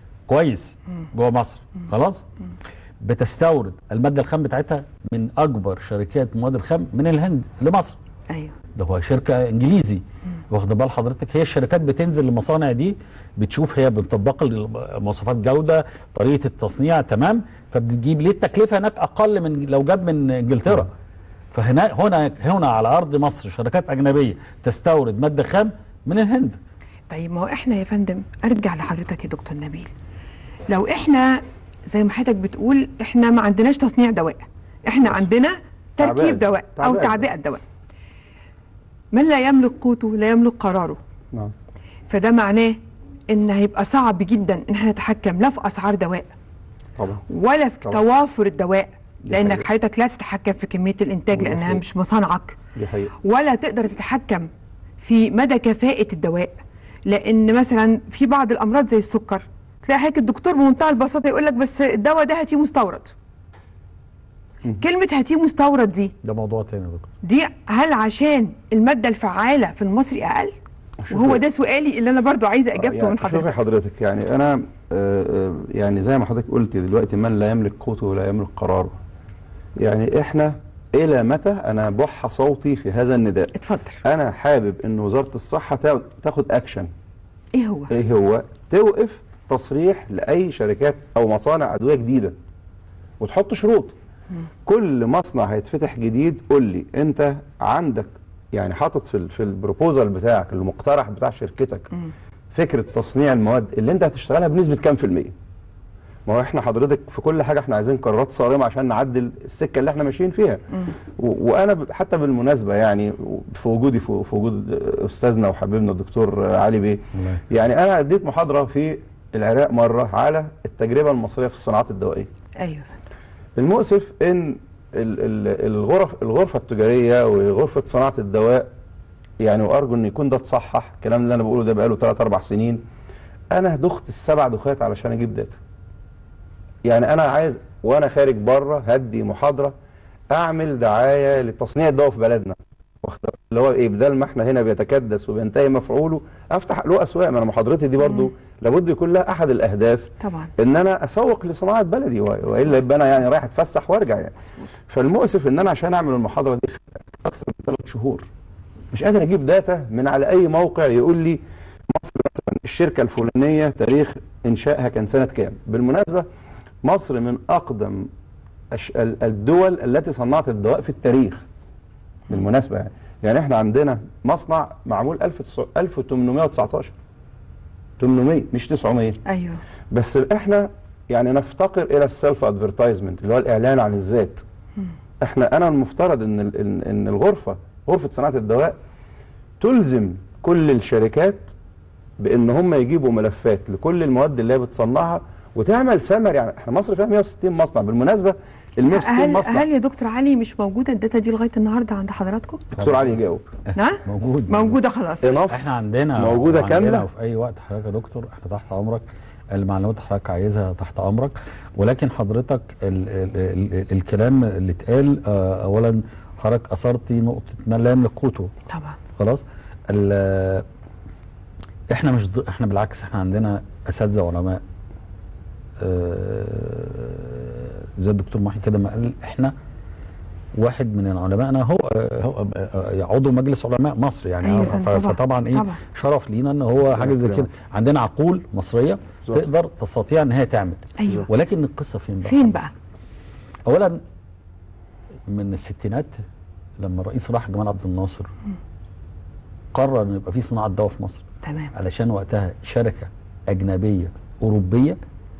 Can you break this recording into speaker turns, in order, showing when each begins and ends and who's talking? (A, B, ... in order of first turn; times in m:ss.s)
0:00.3-0:02.2 A
0:03.0-0:08.0 A
0:08.7-0:20.9 A
0:21.5-0:26.6 A
0:27.1-0:29.9 B
0:30.7-0:31.4 B
0:31.9-0:37.6 B
0:36.0-0:37.2 C
0:39.1-0:41.0 B
0:42.1-0:42.8 B
0:43.3-0:46.3 B
0:47.0-0:47.2 C
0:47.3-0:52.6 B
0:49.2-0:49.6 C
0:51.3-0:51.8 C
0:52.8-0:53.1 C
0:53.2-0:54.5 B
0:55.0-1:03.1 B
1:04.8-1:06.1 B
1:06.2-1:07.1 A
1:07.2-1:10.5 B
1:11.0-1:11.4 C
1:11.1-1:13.5 B
1:12.7-1:18.9 C
1:19.8-1:26.9 C
1:23.6-1:24.0 B
1:27.5-1:27.9 B
1:27.9-1:32.3 C
1:33.2-1:33.9 C
1:34.6-1:41.9 C
1:42.5-1:45.3 C
1:46.3-1:50.6 C
1:51.2-2:02.3 C
2:02.6-2:02.9 B
2:03.6-2:08.7 C
2:09.4-2:12.8 C
2:13.5-2:15.6 C
2:16.8-2:19.7 C
2:20.3-2:34.3 C
2:30.2-2:30.5 B
2:34.9-2:38.2 C
2:38.9-2:41.4 C
2:41.9-2:46.2 C
2:46.8-2:48.1 C
2:48.7-2:51.4 C
2:52.3-2:56.9 C
2:58.0-2:59.2 C
2:59.2-2:59.6 B
2:59.9-3:04.4 C
3:05.2-3:08.7 C
3:09.6-3:11.5 C
3:12.2-3:19.6 C
3:18.9-3:22.6 B
3:22.8-3:23.2 A
3:22.8-3:23.4 C
3:23.7-3:25.3 B
3:24.0-3:24.8 A
3:25.2-3:27.0 C
3:25.5-3:38.5 A
3:38.7-3:39.0 B
3:39.2-3:40.6 A
3:41.9-3:44.6 A
3:45.8-3:49.5 A
3:50.6-4:02.6 A
3:54.4-3:55.8 B
3:56.8-3:57.5 C
4:01.0-4:01.2 B
4:02.2-4:02.7 B
4:03.6-4:04.0 A
4:05.3-4:06.2 A
4:06.8-4:08.3 A
4:09.7-4:11.2 A
4:11.4-4:11.7 B
4:11.7-4:15.0 A